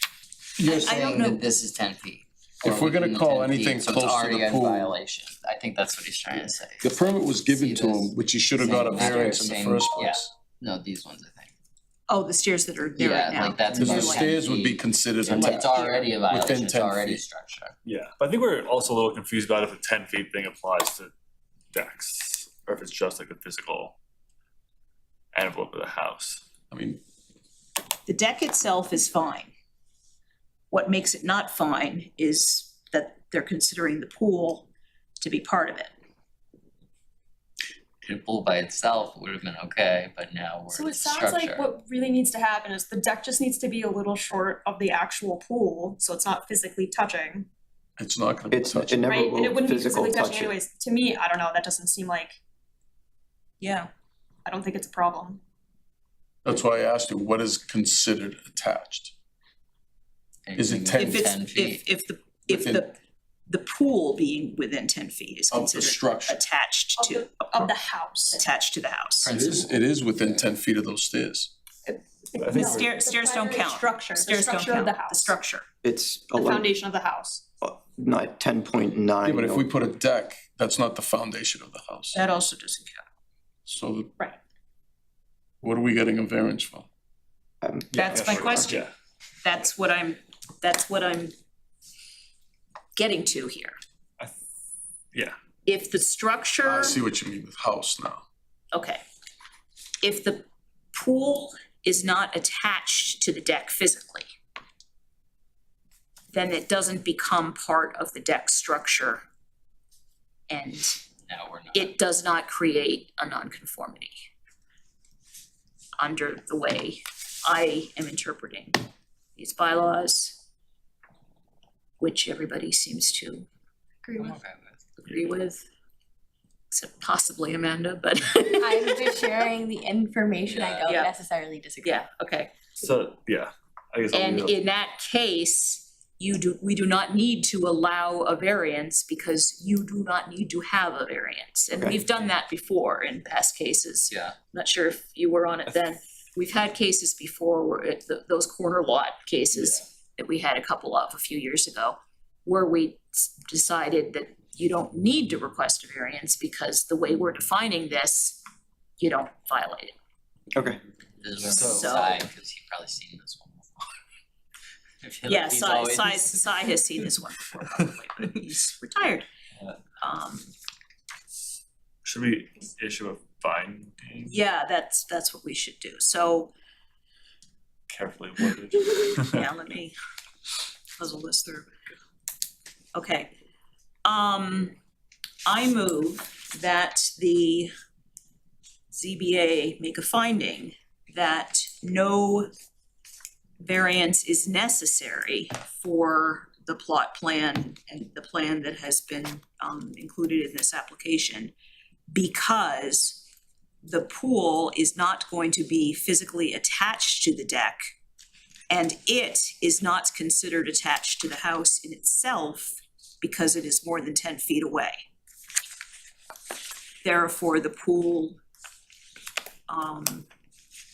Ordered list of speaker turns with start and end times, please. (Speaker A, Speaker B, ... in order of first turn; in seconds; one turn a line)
Speaker A: 0.6-1.2
Speaker B: 0.6-1.4
Speaker C: 0.9-11.5
Speaker A: 2.6-5.0
Speaker A: 6.8-10.3
Speaker B: 12.1-14.3
Speaker C: 13.0-17.8
Speaker A: 13.7-17.2
Speaker D: 17.9-21.1
Speaker D: 21.7-23.9
Speaker D: 25.3-26.4
Speaker A: 26.7-27.0
Speaker B: 28.1-29.5
Speaker B: 30.7-35.9
Speaker C: 38.0-41.6
Speaker E: 40.7-47.5
Speaker A: 48.0-49.0
Speaker F: 48.5-50.5
Speaker E: 49.1-52.4
Speaker E: 54.5-55.4
Speaker A: 56.4-59.1
Speaker C: 60.5-61.8
Speaker A: 60.6-61.3
Speaker B: 61.0-63.0
Speaker A: 62.5-62.9
Speaker B: 63.5-67.7
Speaker A: 65.5-66.4
Speaker E: 67.0-68.4
Speaker B: 68.3-69.3
Speaker C: 69.2-70.5
Speaker A: 69.3-71.5
Speaker E: 71.9-75.4
Speaker D: 72.4-72.9
Speaker B: 72.5-75.7
Speaker F: 75.8-76.8
Speaker E: 76.3-77.4
Speaker F: 77.6-79.7
Speaker A: 79.2-82.2
Speaker B: 82.1-83.0
Speaker A: 83.7-84.1
Speaker A: 85.6-86.9
Speaker F: 87.6-87.9
Speaker B: 87.9-88.8
Speaker D: 88.0-88.9
Speaker A: 88.0-88.6
Speaker B: 89.4-91.3
Speaker B: 93.0-93.8
Speaker B: 95.7-97.0
Speaker A: 96.6-98.2
Speaker B: 98.7-99.0
Speaker B: 100.0-104.3
Speaker B: 106.3-109.2
Speaker B: 110.5-111.0
Speaker C: 111.2-112.0
Speaker B: 111.7-114.2
Speaker B: 116.0-118.8
Speaker B: 119.4-120.4
Speaker B: 122.0-123.5
Speaker G: 124.0-124.4
Speaker C: 124.2-124.8
Speaker B: 125.0-125.7
Speaker B: 126.7-129.3
Speaker G: 128.6-132.1
Speaker C: 130.5-130.8
Speaker B: 130.9-131.2
Speaker B: 131.8-132.5
Speaker D: 132.8-134.6
Speaker B: 134.1-158.4
Speaker C: 144.1-144.3
Speaker D: 149.5-149.8
Speaker B: 159.0-159.9
Speaker F: 160.6-160.8
Speaker C: 161.2-163.8
Speaker D: 161.5-162.0
Speaker B: 161.5-162.2
Speaker C: 165.0-166.5
Speaker B: 165.3-169.2
Speaker B: 170.0-170.5
Speaker D: 172.1-174.3
Speaker B: 174.3-176.5
Speaker D: 177.9-179.4
Speaker B: 179.2-179.9
Speaker B: 181.0-181.7
Speaker B: 182.9-183.3
Speaker B: 184.1-184.8
Speaker B: 185.5-187.7
Speaker B: 188.9-192.5
Speaker B: 193.6-201.5
Speaker B: 202.1-203.2
Speaker B: 203.8-207.8
Speaker B: 208.7-215.0
Speaker B: 217.0-218.4
Speaker B: 219.7-220.3